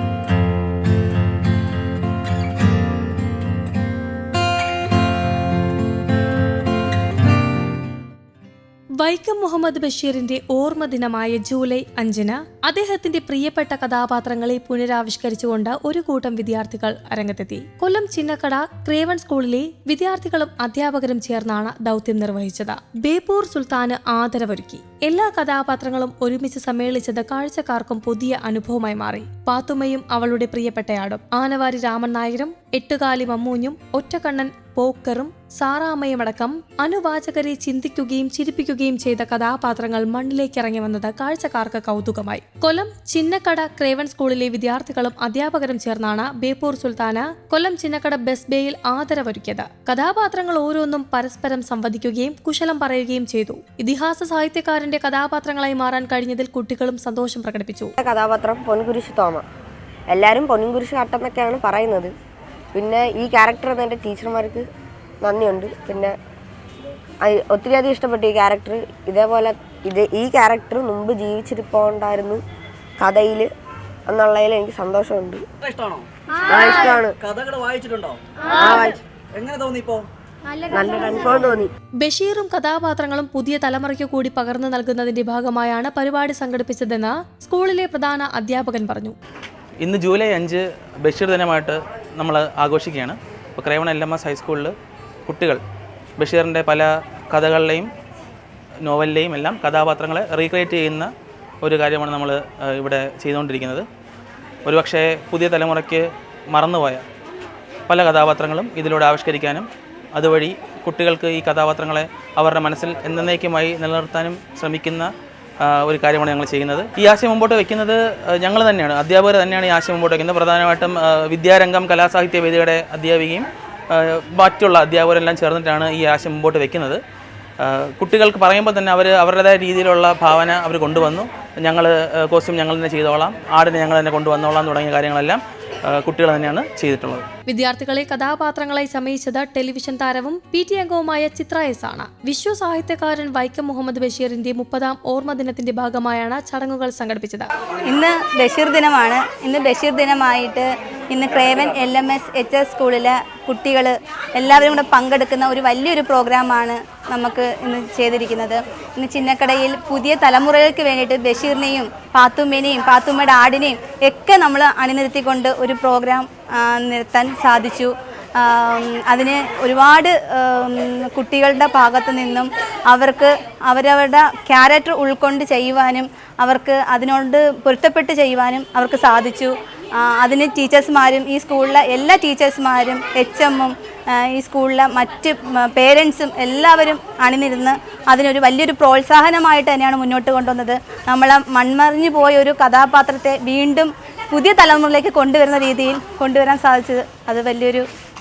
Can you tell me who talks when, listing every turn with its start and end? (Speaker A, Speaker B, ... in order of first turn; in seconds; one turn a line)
Speaker A: 9.0-57.9
Speaker B: 58.0-59.4
Speaker B: 60.1-62.1
Speaker B: 62.7-64.6
Speaker B: 65.2-66.1
Speaker B: 67.2-72.4
Speaker B: 73.0-73.5
Speaker B: 74.1-75.4
Speaker C: 75.7-76.0
Speaker B: 76.4-77.1
Speaker C: 77.2-78.2
Speaker B: 78.5-79.0
Speaker C: 79.3-80.0
Speaker B: 80.7-81.7
Speaker A: 82.0-89.1
Speaker D: 89.8-94.7
Speaker D: 95.2-95.6
Speaker D: 96.2-97.9
Speaker D: 98.8-103.8
Speaker D: 104.6-107.0
Speaker D: 107.9-115.1
Speaker D: 115.6-127.0
Speaker D: 127.6-137.2
Speaker A: 137.5-147.5
Speaker E: 147.9-197.8